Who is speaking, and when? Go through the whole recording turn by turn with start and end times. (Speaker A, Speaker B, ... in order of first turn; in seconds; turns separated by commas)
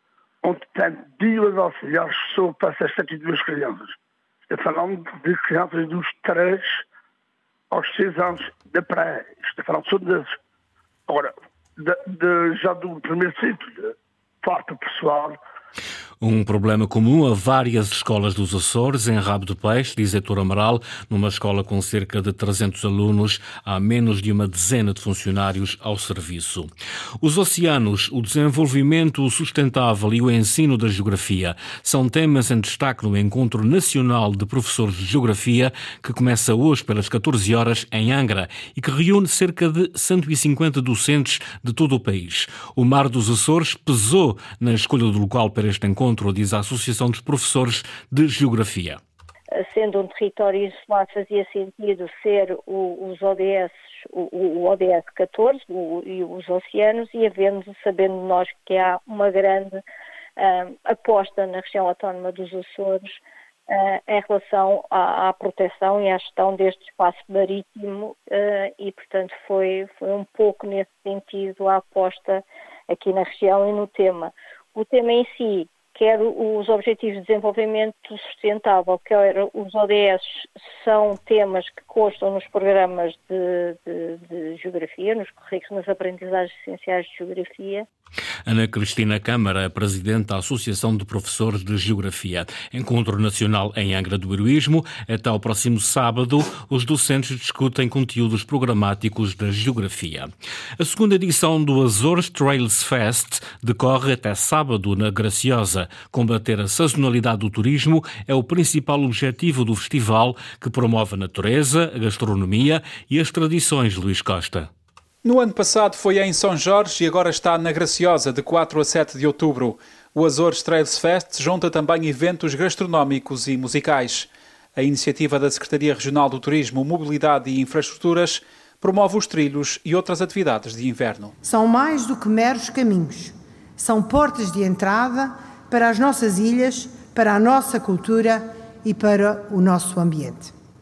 Speaker A: 0.4-4.0, Speaker A: 4.5-6.8, Speaker A: 7.7-10.4, Speaker A: 11.1-15.4, Speaker B: 16.2-49.0, Speaker C: 49.5-59.8, Speaker C: 60.4-63.2, Speaker C: 63.7-87.9, Speaker B: 88.5-114.7, Speaker D: 115.2-131.3, Speaker E: 131.4-140.5